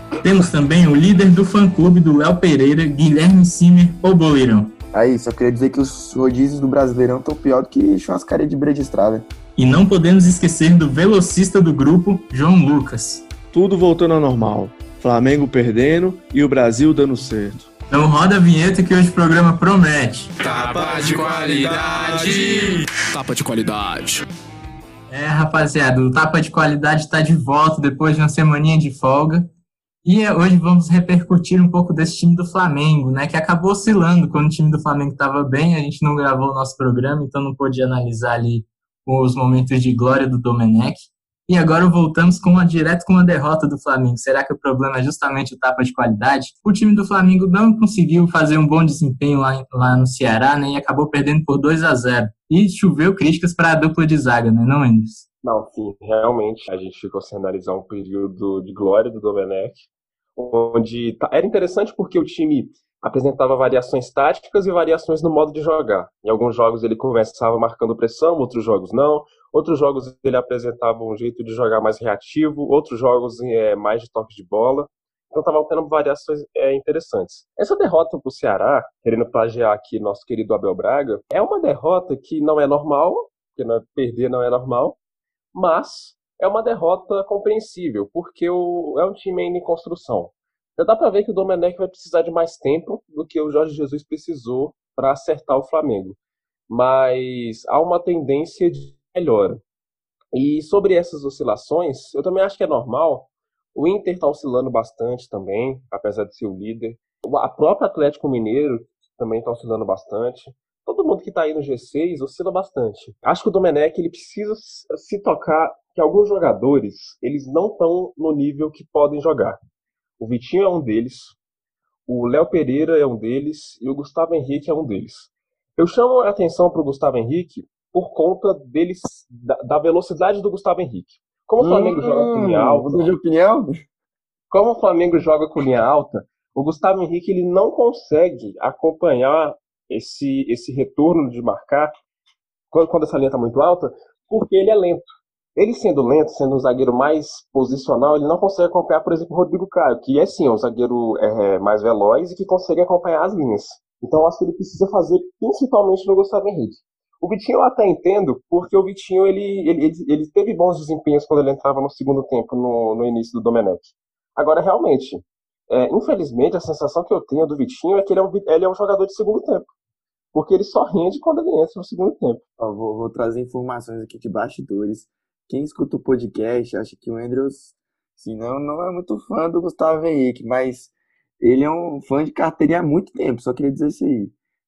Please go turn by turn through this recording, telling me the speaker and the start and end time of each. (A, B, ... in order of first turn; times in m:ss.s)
0:00.2-0:04.7 A
0:04.9-0:09.3 B
0:09.6-0:13.2 A
0:13.5-0:17.7 C
0:17.9-0:20.3 A
0:20.4-0:24.2 D
0:20.4-0:22.8 C
0:25.1-0:29.5 A
0:30.0-0:55.2 A
0:55.4-1:25.0 E
1:25.5-1:36.2 E
1:36.7-1:39.6 E
1:40.3-1:59.6 E
2:00.2-2:01.4 E
2:02.1-2:13.1 E
2:11.6-2:13.7 B
2:14.5-2:21.9 E
2:22.7-2:49.7 E
2:50.3-2:52.4 E
2:52.6-3:04.3 B